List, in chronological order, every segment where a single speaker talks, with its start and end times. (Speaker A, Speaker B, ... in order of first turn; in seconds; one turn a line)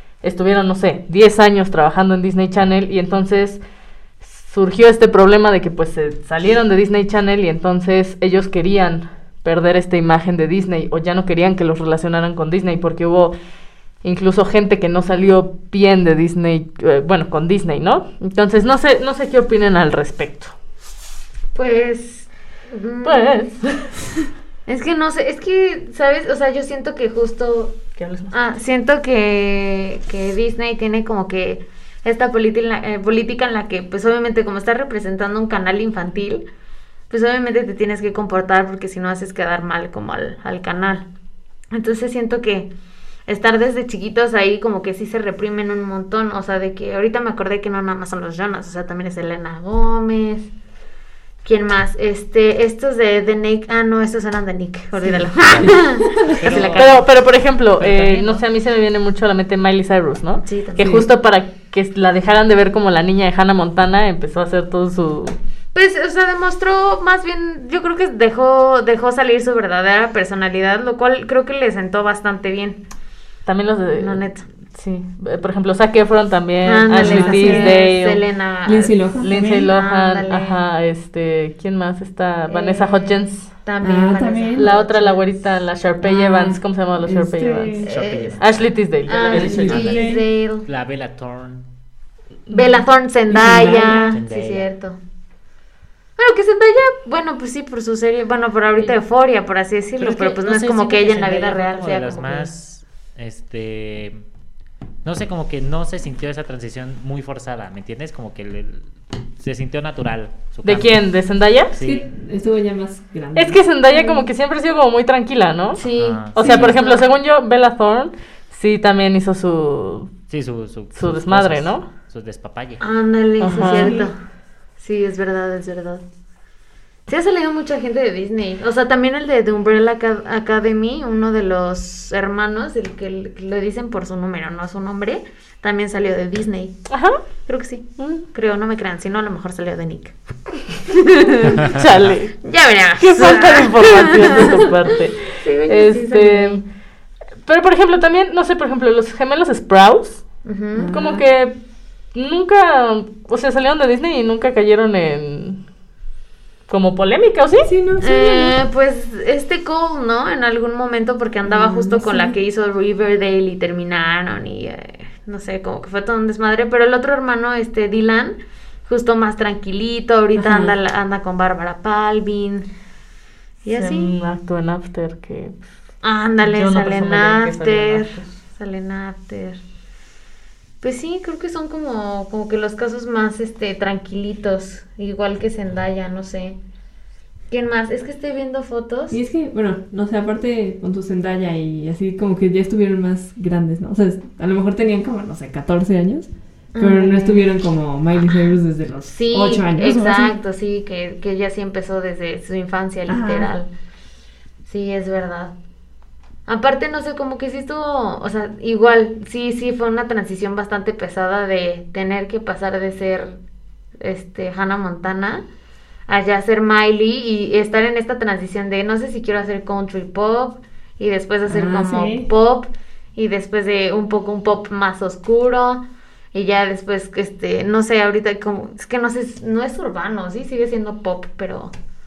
Speaker A: 0.2-3.6
Speaker A: 4.2-13.3
Speaker A: 14.0-20.5
Speaker B: 21.5-23.4
Speaker A: 23.0-23.9
Speaker B: 24.6-27.7
Speaker A: 28.0-28.3
Speaker B: 28.3-36.4
Speaker B: 37.1-41.0
Speaker B: 41.7-42.7
Speaker B: 43.3-50.5
Speaker B: 51.4-56.9
Speaker C: 55.4-57.0
Speaker D: 56.1-56.5
Speaker A: 56.7-65.3
Speaker C: 57.8-58.4
Speaker B: 60.4-61.0
Speaker B: 65.7-72.8
Speaker A: 73.5-78.2
Speaker B: 74.0-74.4
Speaker B: 76.6-80.6
Speaker D: 76.9-77.8
Speaker D: 78.6-79.7
Speaker A: 79.2-83.5
Speaker B: 82.5-85.2
Speaker D: 83.8-84.7
Speaker A: 84.6-87.8
Speaker D: 86.0-87.9
Speaker B: 87.8-88.4
Speaker C: 87.9-88.7
Speaker A: 88.4-89.9
Speaker B: 89.1-90.7
Speaker D: 89.3-90.2
Speaker C: 89.5-90.1
Speaker C: 90.7-91.7
Speaker A: 92.5-92.8
Speaker B: 92.5-95.0
Speaker D: 93.3-94.2
Speaker C: 93.8-94.7
Speaker B: 96.2-102.5
Speaker C: 100.0-104.2
Speaker C: 105.0-108.8
Speaker C: 109.4-111.0
Speaker A: 110.6-111.7
Speaker C: 111.7-112.0
Speaker D: 111.8-113.6
Speaker A: 113.3-120.1
Speaker B: 113.9-114.2
Speaker B: 115.8-117.0
Speaker C: 115.9-116.3
Speaker D: 116.4-116.7
Speaker C: 120.3-122.8
Speaker A: 120.9-121.8
Speaker B: 122.8-124.1
Speaker A: 123.4-124.0
Speaker D: 123.6-124.1
Speaker B: 124.8-126.0
Speaker B: 127.1-136.8
Speaker A: 136.9-137.2
Speaker B: 137.4-140.1
Speaker A: 138.0-138.2
Speaker B: 140.8-141.6
Speaker A: 140.9-142.3
Speaker C: 141.7-142.0
Speaker B: 142.4-144.6
Speaker A: 143.0-146.6
Speaker B: 145.3-146.6
Speaker A: 147.4-150.2
Speaker B: 150.4-150.9
Speaker D: 150.7-151.2
Speaker A: 150.9-151.6
Speaker A: 152.1-155.6
Speaker A: 156.7-157.7
Speaker D: 157.6-158.6
Speaker B: 158.0-172.7
Speaker D: 161.4-162.4
Speaker D: 170.4-170.7
Speaker B: 173.6-174.1
Speaker A: 173.7-175.6
Speaker B: 176.0-179.6
Speaker A: 176.4-178.4
Speaker B: 180.8-186.6
Speaker B: 187.5-189.2
Speaker D: 189.1-200.3
Speaker B: 196.7-197.5
Speaker B: 199.1-203.7
Speaker D: 203.1-203.5
Speaker B: 204.7-205.5
Speaker B: 206.5-213.4
Speaker B: 214.0-215.4
Speaker B: 216.1-231.7
Speaker D: 221.5-222.3